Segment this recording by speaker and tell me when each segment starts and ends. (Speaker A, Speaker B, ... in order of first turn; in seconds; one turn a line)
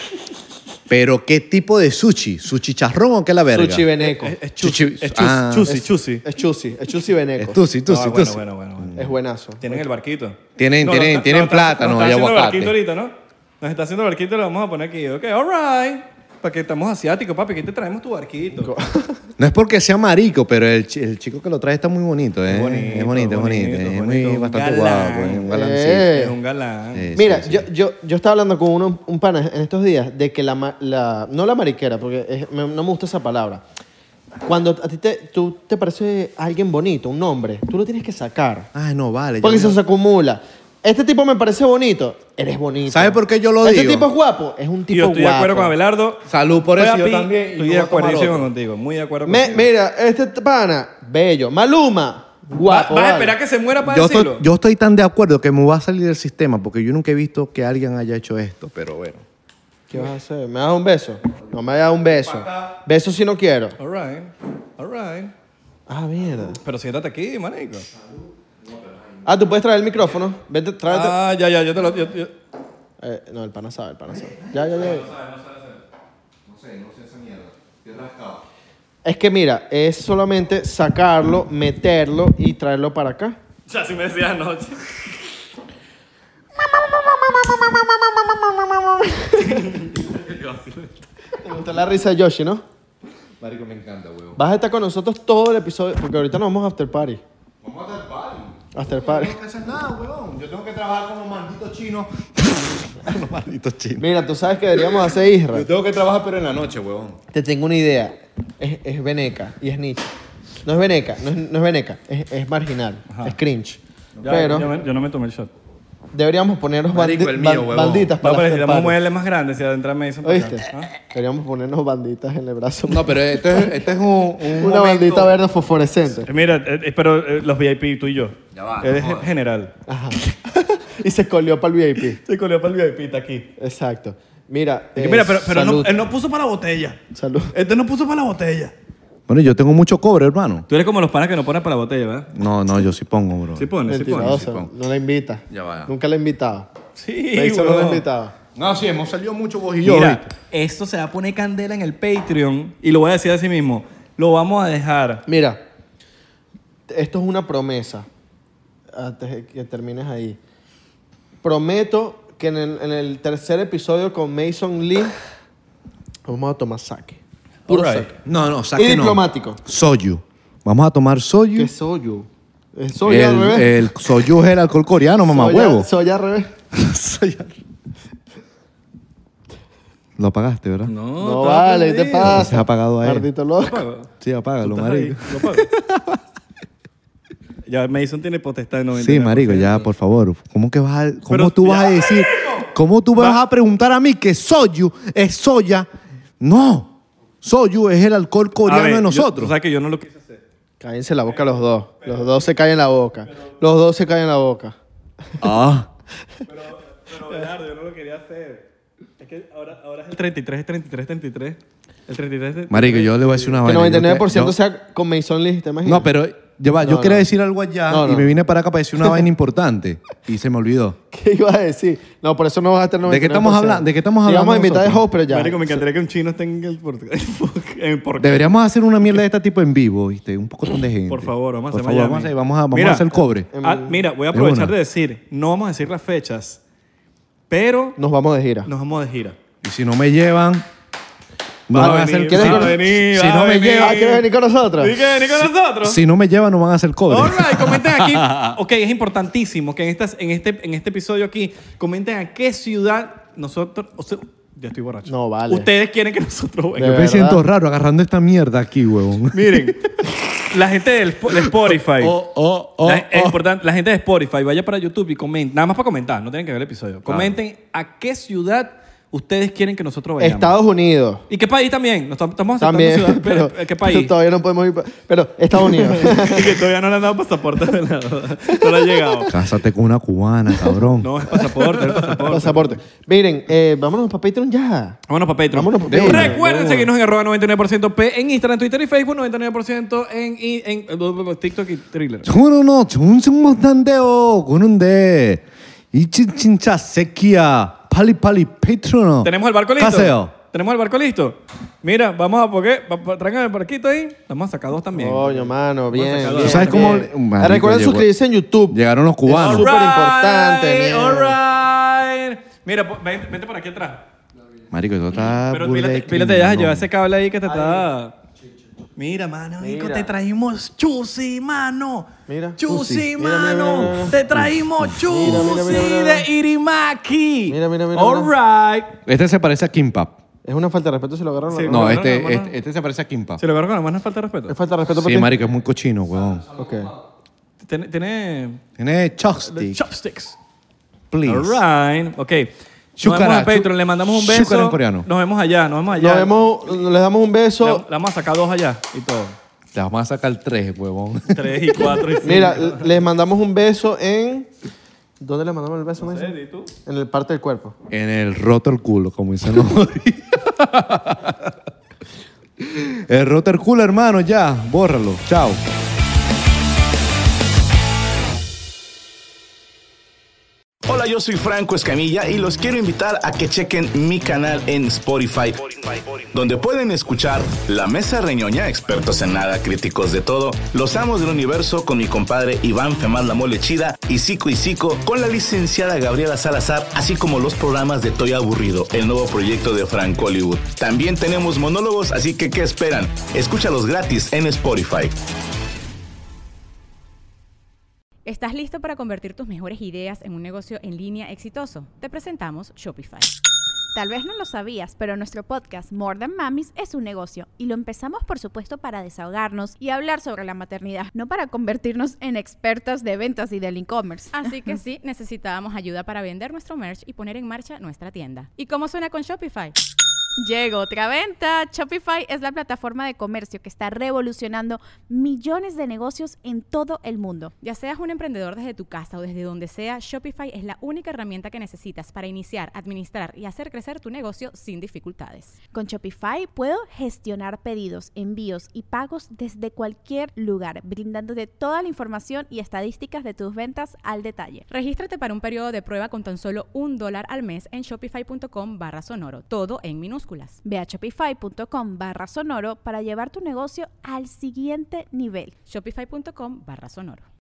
Speaker A: 0.9-3.9
Speaker B: 3.5-4.3
Speaker C: 4.0-6.3
Speaker A: 4.6-5.8
Speaker B: 5.7-7.6
Speaker A: 7.4-9.1
Speaker C: 7.8-8.9
Speaker B: 8.9-9.8
Speaker C: 9.6-18.7
Speaker A: 10.6-12.8
Speaker B: 18.6-19.2
Speaker A: 19.4-26.1
Speaker C: 22.5-27.1
Speaker B: 25.5-26.4
Speaker A: 26.9-27.7
Speaker B: 27.1-33.6
Speaker B: 34.4-38.7
Speaker A: 38.7-39.8
Speaker B: 39.4-45.7
Speaker A: 42.9-44.1
Speaker C: 44.9-49.7
Speaker A: 46.2-48.5
Speaker B: 49.2-53.4
Speaker C: 52.6-54.5
Speaker A: 53.8-59.2
Speaker B: 59.9-63.8
Speaker C: 63.8-65.3
Speaker B: 65.9-66.6
Speaker C: 66.5-67.9
Speaker A: 68.1-69.2
Speaker B: 69.2-71.2
Speaker C: 70.8-72.3
Speaker B: 73.0-75.1
Speaker A: 74.1-74.8
Speaker C: 74.7-75.8
Speaker A: 76.4-78.4
Speaker B: 79.0-83.4
Speaker C: 83.7-84.8
Speaker B: 87.3-89.7
Speaker C: 89.3-90.9
Speaker B: 91.4-92.6
Speaker A: 93.4-94.4
Speaker B: 94.4-97.2
Speaker A: 97.6-104.0
Speaker B: 98.7-99.3
Speaker B: 104.0-105.7
Speaker A: 105.5-107.2
Speaker B: 107.3-110.1
Speaker B: 110.6-114.7
Speaker C: 113.1-113.3
Speaker C: 114.2-115.5
Speaker B: 116.1-119.0
Speaker A: 116.9-118.1
Speaker C: 118.2-120.9
Speaker B: 120.2-123.8
Speaker A: 122.8-125.3
Speaker B: 124.5-126.3
Speaker C: 126.2-129.7
Speaker A: 128.5-129.3
Speaker B: 129.9-132.2
Speaker C: 132.2-133.5
Speaker B: 133.6-136.0
Speaker C: 135.0-137.0
Speaker B: 137.1-137.5
Speaker C: 137.5-138.7
Speaker A: 139.3-140.7
Speaker C: 140.7-142.3
Speaker A: 142.3-144.7
Speaker C: 143.6-144.4
Speaker B: 143.9-146.7
Speaker A: 145.5-145.9
Speaker C: 146.9-148.0
Speaker B: 147.3-148.3
Speaker A: 148.5-150.3
Speaker C: 149.8-155.2
Speaker B: 155.3-155.6
Speaker B: 156.9-158.1
Speaker B: 158.9-160.4
Speaker B: 161.4-165.1
Speaker B: 166.3-168.1
Speaker C: 167.7-168.1
Speaker A: 168.2-171.7
Speaker B: 168.8-169.6
Speaker B: 171.6-173.9
Speaker A: 173.0-175.9
Speaker B: 175.3-176.5
Speaker A: 176.7-177.5
Speaker A: 180.2-180.9
Speaker C: 180.9-182.3
Speaker B: 181.2-183.8
Speaker A: 182.2-183.3
Speaker C: 183.6-184.1
Speaker A: 184.2-185.8
Speaker C: 184.6-185.7
Speaker C: 187.7-189.8
Speaker A: 188.9-195.9
Speaker C: 191.3-193.4
Speaker A: 196.4-199.5
Speaker C: 198.6-200.4
Speaker B: 200.8-204.7
Speaker C: 201.3-202.5
Speaker C: 203.2-203.6
Speaker A: 205.4-205.9
Speaker C: 206.4-208.7
Speaker C: 209.2-213.7
Speaker A: 212.7-214.6
Speaker B: 213.6-216.1
Speaker A: 215.8-221.0
Speaker B: 216.8-217.3
Speaker B: 217.9-218.3
Speaker B: 221.1-225.8
Speaker A: 223.0-225.0
Speaker C: 225.3-228.5
Speaker A: 228.2-233.5
Speaker C: 231.1-236.6
Speaker B: 233.5-234.0
Speaker A: 234.3-234.7
Speaker C: 237.5-238.0
Speaker B: 238.0-238.7
Speaker C: 238.6-239.4
Speaker A: 239.6-240.7
Speaker A: 241.7-244.0
Speaker C: 241.7-244.2
Speaker B: 241.8-242.8
Speaker B: 243.8-245.1
Speaker C: 244.8-246.0
Speaker A: 245.8-248.6
Speaker C: 247.1-257.0
Speaker B: 255.1-255.7
Speaker B: 256.8-257.4
Speaker A: 256.8-259.7
Speaker C: 259.3-259.9
Speaker C: 260.5-262.2
Speaker A: 261.3-263.4
Speaker C: 262.8-270.6
Speaker A: 267.1-267.3
Speaker B: 270.2-271.2
Speaker C: 271.3-274.1
Speaker B: 272.6-276.6
Speaker C: 275.6-279.3
Speaker A: 279.3-281.1
Speaker C: 281.0-282.8
Speaker B: 281.4-285.0
Speaker C: 285.1-292.3
Speaker B: 285.5-286.9
Speaker A: 285.9-286.4
Speaker A: 292.2-300.3
Speaker C: 299.2-307.0
Speaker B: 304.9-311.4
Speaker A: 306.3-308.1
Speaker A: 308.7-309.7
Speaker C: 309.4-314.1
Speaker A: 314.7-316.9
Speaker C: 315.5-318.1
Speaker B: 317.5-317.9
Speaker C: 318.9-329.0
Speaker B: 319.6-320.1
Speaker B: 322.3-324.1
Speaker A: 324.3-325.5
Speaker B: 325.1-326.2
Speaker B: 327.5-328.3
Speaker A: 329.1-330.2
Speaker B: 330.4-331.9
Speaker C: 331.5-332.5
Speaker A: 331.7-333.4
Speaker C: 333.4-334.6
Speaker B: 334.5-335.4
Speaker A: 334.9-336.4
Speaker B: 336.5-336.9
Speaker C: 337.6-338.6
Speaker A: 338.8-339.8
Speaker C: 339.5-340.4
Speaker A: 341.1-341.6
Speaker C: 341.2-346.8
Speaker A: 343.0-345.1
Speaker B: 345.9-347.8
Speaker C: 347.6-349.4
Speaker A: 349.7-351.5
Speaker C: 351.3-352.9
Speaker B: 352.2-354.5
Speaker B: 355.2-357.7
Speaker C: 356.0-356.7
Speaker A: 357.9-361.5
Speaker A: 362.6-365.6
Speaker D: 370.8-395.2
Speaker E: 398.2-403.3
Speaker F: 403.9-414.5
Speaker E: 414.3-419.8
Speaker F: 420.4-427.5
Speaker E: 427.6-435.6
Speaker F: 435.7-444.6
Speaker E: 444.7-450.6
Speaker F: 450.6-455.5
Speaker E: 455.7-457.2